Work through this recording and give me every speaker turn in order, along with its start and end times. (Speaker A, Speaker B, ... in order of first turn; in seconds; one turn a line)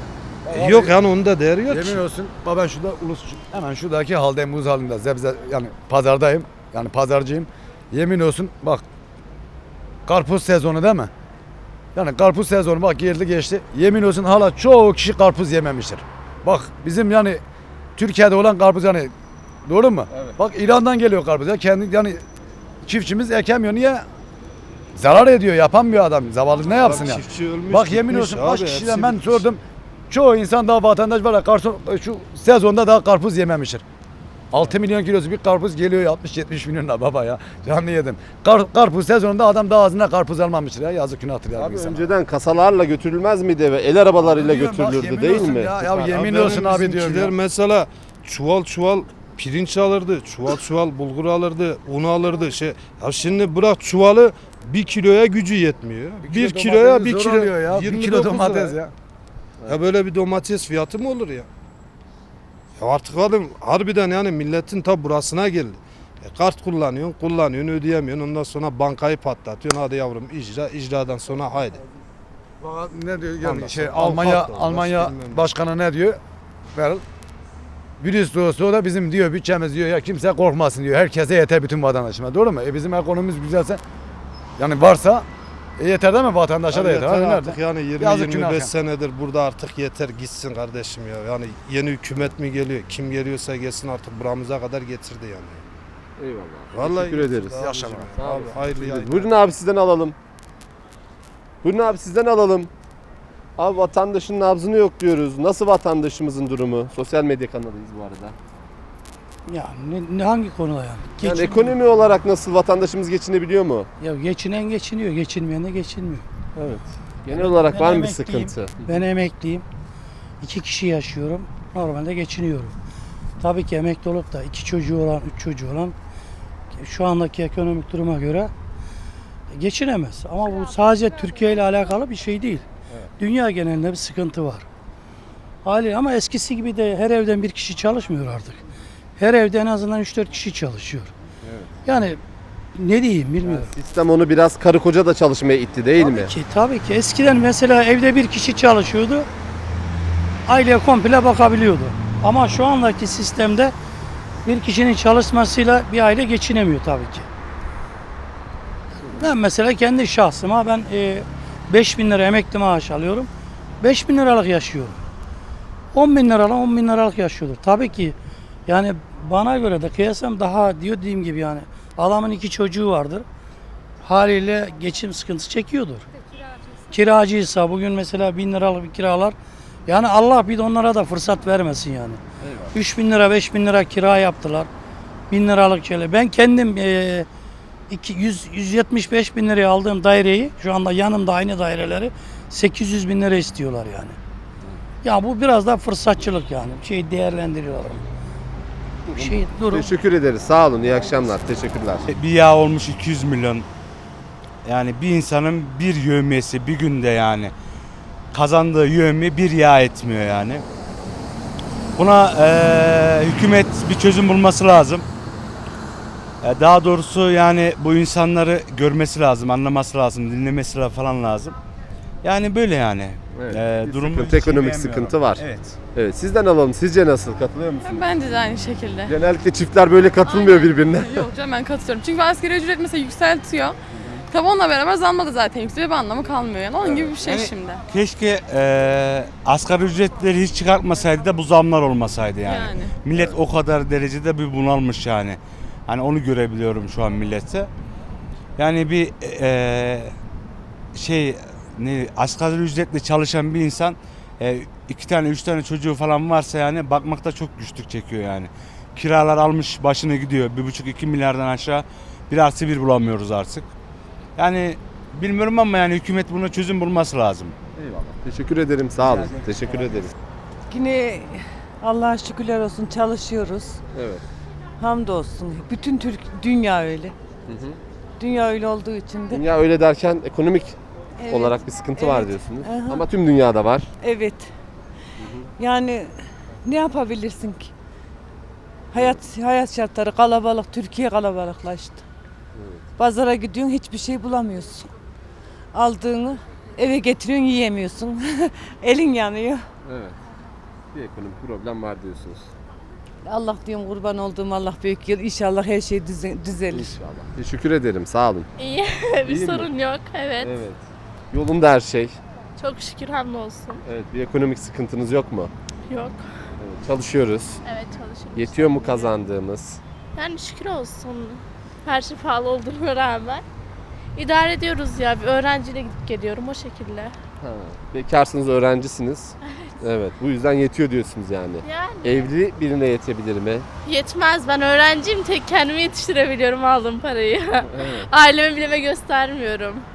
Speaker A: 0.4-0.9
Speaker B: 0.5-2.0
Speaker A: 1.7-8.8
Speaker A: 10.1-11.1
Speaker A: 11.9-17.4
Speaker A: 17.9-19.1
Speaker A: 19.6-22.2
Speaker A: 22.9-24.0
Speaker A: 24.9-33.8
Speaker B: 26.7-29.5
Speaker A: 34.5-42.1
Speaker C: 41.5-46.1
Speaker A: 44.2-47.3
Speaker B: 46.1-58.8
Speaker A: 56.2-58.9
Speaker B: 59.7-61.5
Speaker B: 62.8-71.8
Speaker A: 72.6-76.2
Speaker B: 73.4-75.5
Speaker A: 76.7-77.0
Speaker A: 78.0-83.8
Speaker A: 84.6-85.2
Speaker A: 85.8-88.7
Speaker B: 86.7-95.6
Speaker C: 96.2-97.6
Speaker B: 96.7-99.3
Speaker A: 97.6-98.1
Speaker C: 98.1-100.1
Speaker C: 101.6-102.7
Speaker C: 103.6-108.3
Speaker D: 109.5-111.8
Speaker C: 111.2-113.9
Speaker D: 114.0-119.6
Speaker C: 117.2-118.9
Speaker D: 120.4-122.7
Speaker D: 123.4-125.9
Speaker D: 126.8-128.5
Speaker D: 129.5-132.6
Speaker D: 133.2-134.7
Speaker D: 135.6-138.6
Speaker D: 139.2-141.1
Speaker C: 141.4-141.7
Speaker D: 141.8-142.2
Speaker D: 142.8-143.7
Speaker C: 143.4-146.3
Speaker D: 145.9-149.3
Speaker D: 150.5-153.7
Speaker D: 154.4-157.3
Speaker D: 159.1-163.3
Speaker D: 163.8-165.0
Speaker D: 165.9-168.1
Speaker D: 168.7-173.2
Speaker D: 174.0-176.1
Speaker D: 176.9-179.3
Speaker D: 179.9-182.2
Speaker C: 182.4-182.7
Speaker D: 182.7-184.7
Speaker D: 185.3-187.3
Speaker D: 187.9-194.2
Speaker D: 195.0-198.0
Speaker C: 199.1-202.1
Speaker D: 199.1-200.0
Speaker E: 202.1-203.7
Speaker E: 204.6-207.5
Speaker E: 208.3-210.6
Speaker E: 211.9-215.1
Speaker E: 216.4-221.5
Speaker E: 222.2-225.8
Speaker C: 223.3-225.4
Speaker C: 225.9-228.1
Speaker F: 227.9-229.1
Speaker C: 229.1-231.3
Speaker F: 230.2-233.7
Speaker F: 234.3-237.8
Speaker C: 236.8-237.2
Speaker E: 237.2-247.7
Speaker F: 242.4-242.9
Speaker C: 243.1-243.4
Speaker E: 248.6-250.1
Speaker E: 250.9-263.7
Speaker E: 264.4-267.5
Speaker C: 267.8-270.1
Speaker E: 269.0-270.1
Speaker G: 270.7-273.8
Speaker C: 273.9-274.2
Speaker G: 274.8-277.1
Speaker C: 277.5-277.8
Speaker G: 278.2-279.4
Speaker C: 279.3-283.9
Speaker G: 281.2-283.1
Speaker G: 284.0-284.5
Speaker C: 285.2-285.5
Speaker G: 285.6-287.7
Speaker G: 288.9-292.0
Speaker C: 288.9-289.2
Speaker C: 292.6-292.8
Speaker G: 293.0-294.9
Speaker G: 295.7-299.6
Speaker C: 299.8-300.1
Speaker C: 300.9-302.5
Speaker G: 303.2-306.9
Speaker C: 306.7-308.5
Speaker H: 308.6-310.5
Speaker C: 309.2-309.7
Speaker C: 310.4-312.2
Speaker H: 312.6-313.8
Speaker C: 313.8-315.5
Speaker H: 315.9-316.2
Speaker C: 316.6-317.6
Speaker H: 317.6-319.2
Speaker C: 318.3-319.8
Speaker H: 320.1-323.4
Speaker H: 324.1-327.1
Speaker C: 327.4-333.7
Speaker H: 329.4-329.8
Speaker H: 331.6-332.3
Speaker H: 333.8-339.8
Speaker C: 337.7-338.1